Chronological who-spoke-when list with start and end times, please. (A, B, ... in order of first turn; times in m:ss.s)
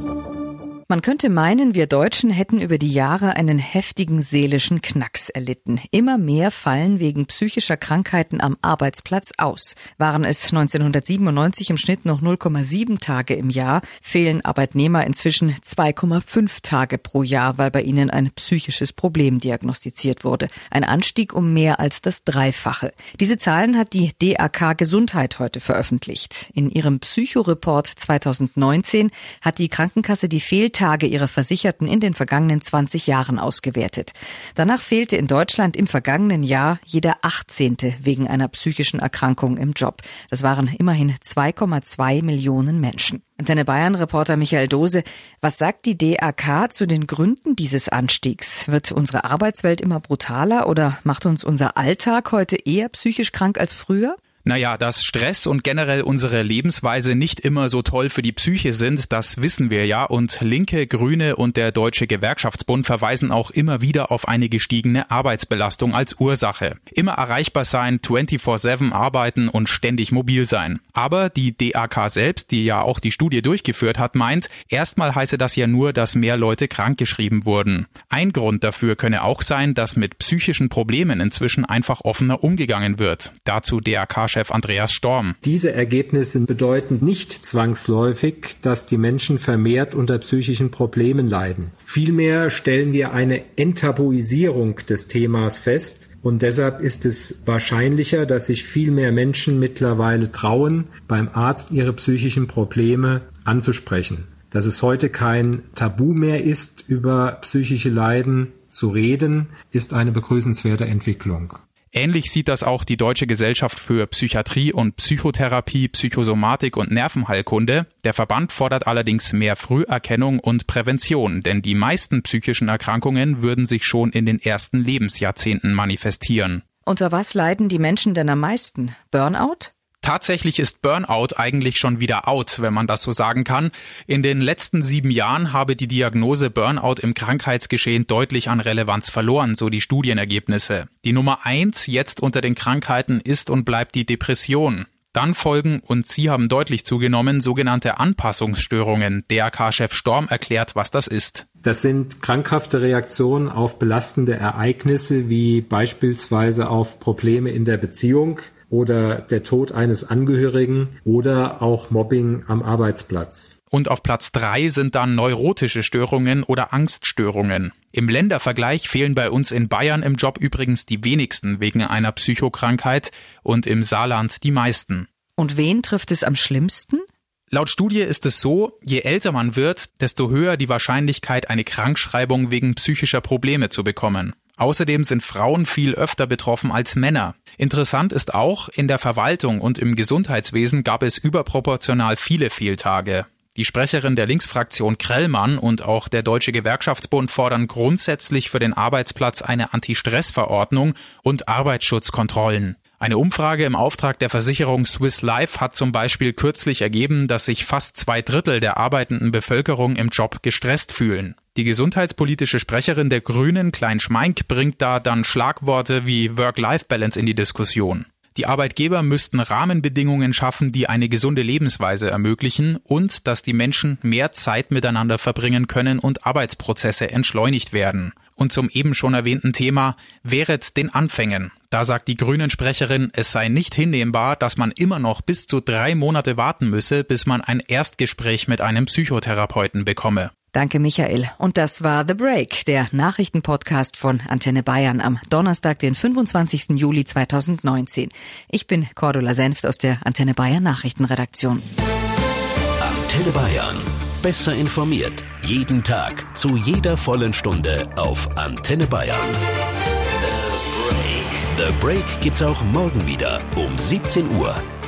0:00.9-0:54.2 A
0:54.4-1:25.4 B
1:25.4-1:51.6 C
1:51.9-2:06.6 B
2:06.8-2:09.7 A
2:10.0-2:31.4 B
2:31.6-2:43.5 C
2:43.7-2:55.1 B
2:55.4-2:57.0 A
2:57.5-4:00.3 B
4:00.5-4:11.6 A
4:12.8-4:19.4 D
4:20.2-4:24.6 D